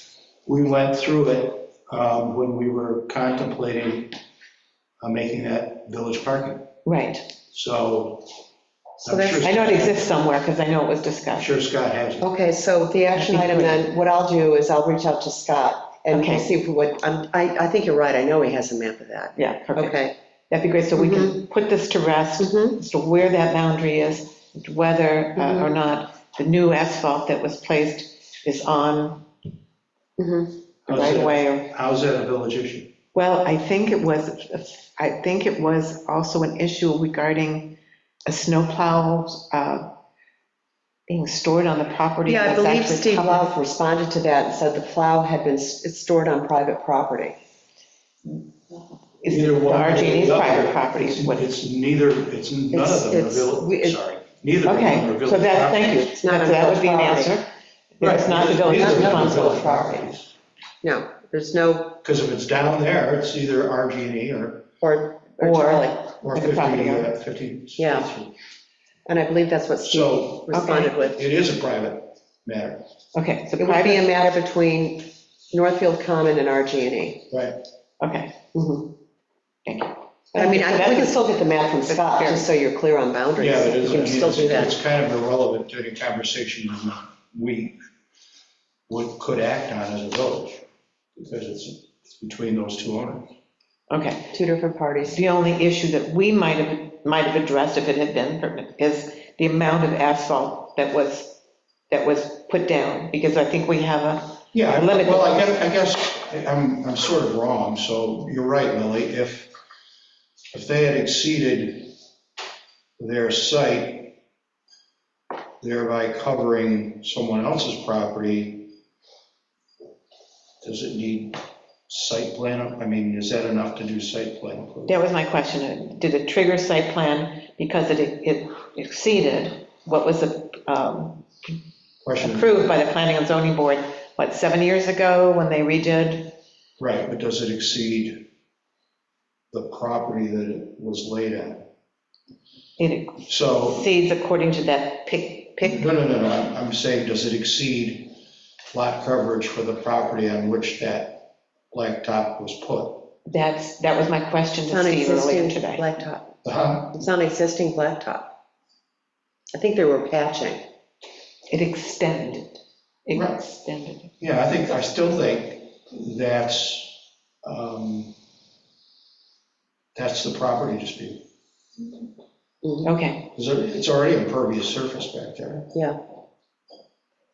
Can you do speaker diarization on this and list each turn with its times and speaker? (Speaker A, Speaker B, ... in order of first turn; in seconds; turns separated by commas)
Speaker A: 0.5-4.1, Speaker A: 5.0-6.7, Speaker B: 6.8-7.3, Speaker A: 7.5-8.3, Speaker C: 9.0-9.4, Speaker A: 9.0-10.2, Speaker B: 9.3-11.5, Speaker A: 11.4-12.3, Speaker C: 12.2-20.1, Speaker B: 13.1-13.8, Speaker B: 16.1-16.5, Speaker B: 19.4-29.3, Speaker C: 20.9-21.4, Speaker C: 22.4-22.8, Speaker C: 25.4-25.7, Speaker C: 30.2-30.5, Speaker A: 30.9-32.9, Speaker B: 30.9-31.7, Speaker B: 33.1-39.9, Speaker B: 41.1-43.5, Speaker C: 42.2-47.4, Speaker B: 49.2-51.5, Speaker A: 49.2-56.1, Speaker C: 52.7-54.0, Speaker B: 54.6-59.9, Speaker C: 55.9-57.3, Speaker A: 58.0-60.3, Speaker C: 58.4-60.0, Speaker C: 60.8-62.0, Speaker A: 62.0-64.7, Speaker C: 64.8-66.1, Speaker B: 65.4-67.1, Speaker A: 66.2-68.3, Speaker C: 67.8-68.1, Speaker C: 69.0-71.2, Speaker A: 69.8-72.8, Speaker B: 70.5-71.0, Speaker B: 73.1-74.1, Speaker C: 73.6-77.2, Speaker A: 77.3-77.6, Speaker B: 78.0-78.3, Speaker C: 78.5-78.9, Speaker B: 79.7-81.3, Speaker C: 80.3-84.8, Speaker B: 81.8-82.5, Speaker A: 83.4-87.8, Speaker A: 88.9-90.6, Speaker A: 91.2-93.3, Speaker B: 93.9-94.3, Speaker C: 94.3-95.2, Speaker B: 95.1-105.5, Speaker A: 104.5-109.5, Speaker A: 110.5-111.9, Speaker A: 113.0-114.2, Speaker A: 115.6-118.7, Speaker A: 120.6-125.0, Speaker B: 124.9-131.6, Speaker A: 132.0-132.5, Speaker B: 132.2-136.3, Speaker A: 136.8-138.2, Speaker A: 139.5-141.6, Speaker B: 142.8-145.8, Speaker A: 143.3-143.9, Speaker A: 145.6-148.2, Speaker A: 148.7-153.1, Speaker B: 153.2-155.9, Speaker C: 154.7-156.3, Speaker A: 156.4-157.0, Speaker C: 156.9-158.3, Speaker C: 159.5-160.6, Speaker B: 161.5-164.1, Speaker A: 163.1-163.4, Speaker A: 164.2-168.1, Speaker A: 169.9-171.2, Speaker C: 172.6-172.9, Speaker B: 172.8-173.3, Speaker A: 173.3-175.7